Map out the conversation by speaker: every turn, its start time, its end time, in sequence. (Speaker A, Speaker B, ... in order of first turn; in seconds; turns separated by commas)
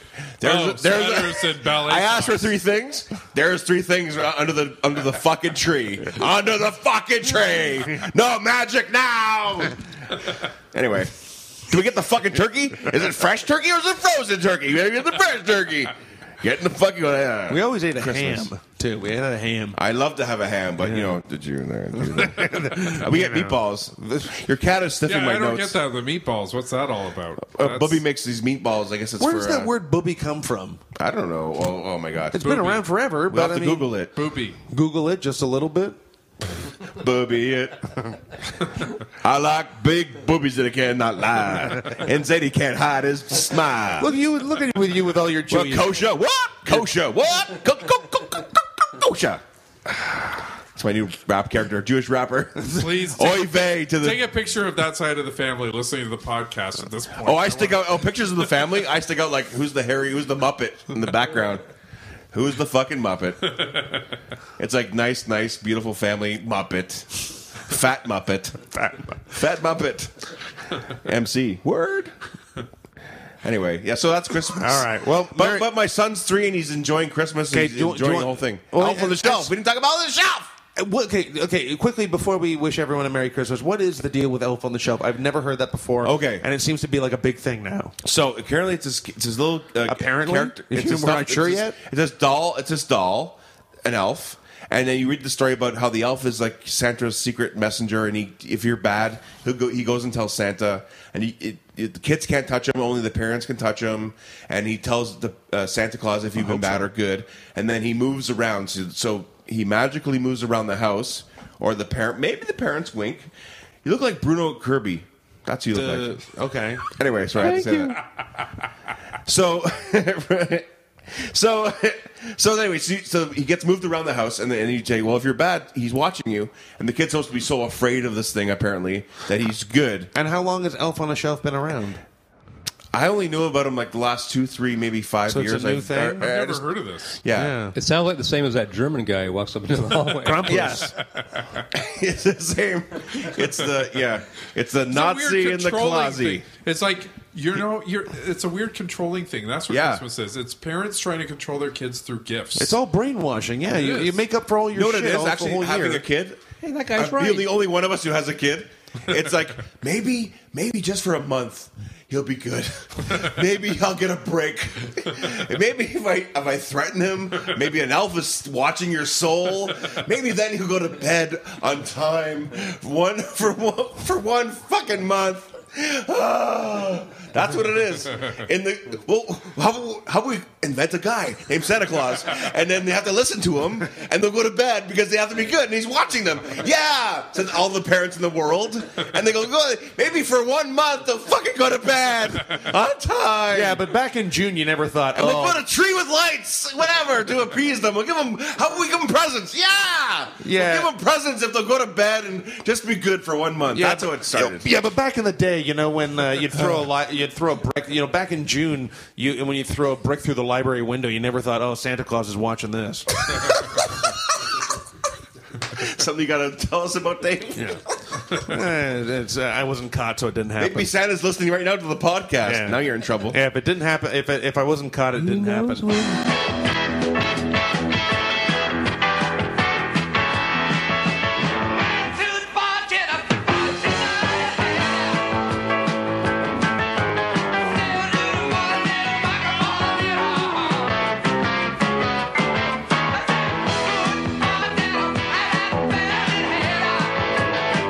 Speaker A: 0.4-18.5, Speaker B: 0.4-2.5, Speaker C: 17.5-19.8, Speaker A: 19.8-25.8, Speaker C: 20.8-21.1, Speaker C: 22.0-24.4, Speaker B: 25.1-28.0, Speaker A: 27.5-29.7, Speaker C: 29.2-30.8, Speaker A: 31.0-32.6, Speaker C: 32.3-33.9, Speaker B: 32.4-32.9, Speaker A: 33.3-34.1, Speaker B: 34.1-34.6, Speaker C: 34.7-36.0, Speaker A: 36.9-38.2, Speaker A: 39.2-44.1, Speaker C: 44.0-46.0, Speaker A: 45.5-54.2, Speaker B: 52.8-58.1, Speaker A: 57.2-61.6, Speaker A: 62.3-63.7, Speaker A: 64.6-68.7, Speaker A: 69.3-70.2, Speaker A: 70.9-72.1, Speaker A: 73.4-80.5, Speaker C: 74.6-75.7, Speaker C: 77.5-79.5, Speaker C: 80.8-88.0, Speaker A: 86.0-86.5, Speaker A: 88.0-113.3, Speaker C: 89.9-91.8, Speaker C: 106.4-106.9, Speaker A: 113.8-116.2, Speaker C: 115.7-116.9, Speaker A: 116.9-118.0, Speaker D: 117.4-118.0, Speaker A: 119.2-130.1, Speaker C: 130.2-132.0, Speaker A: 132.9-136.7, Speaker C: 135.3-136.2, Speaker B: 136.2-137.2, Speaker A: 137.2-137.6, Speaker C: 137.3-137.8, Speaker D: 137.8-140.8, Speaker C: 140.2-140.9, Speaker A: 140.4-140.9, Speaker A: 141.7-146.4, Speaker B: 144.9-152.8, Speaker A: 149.7-150.0, Speaker C: 152.6-156.0, Speaker B: 153.7-154.2, Speaker A: 154.7-156.4, Speaker D: 156.6-157.5, Speaker A: 156.9-193.8, Speaker C: 193.5-195.6, Speaker A: 195.1-204.7, Speaker C: 200.4-200.9, Speaker C: 203.7-213.6, Speaker A: 215.7-217.8, Speaker C: 217.6-217.8, Speaker C: 218.3-220.9, Speaker A: 220.6-223.4, Speaker C: 222.4-226.1, Speaker D: 225.1-226.2, Speaker D: 232.1-234.8, Speaker D: 238.0-240.6, Speaker D: 244.3-246.9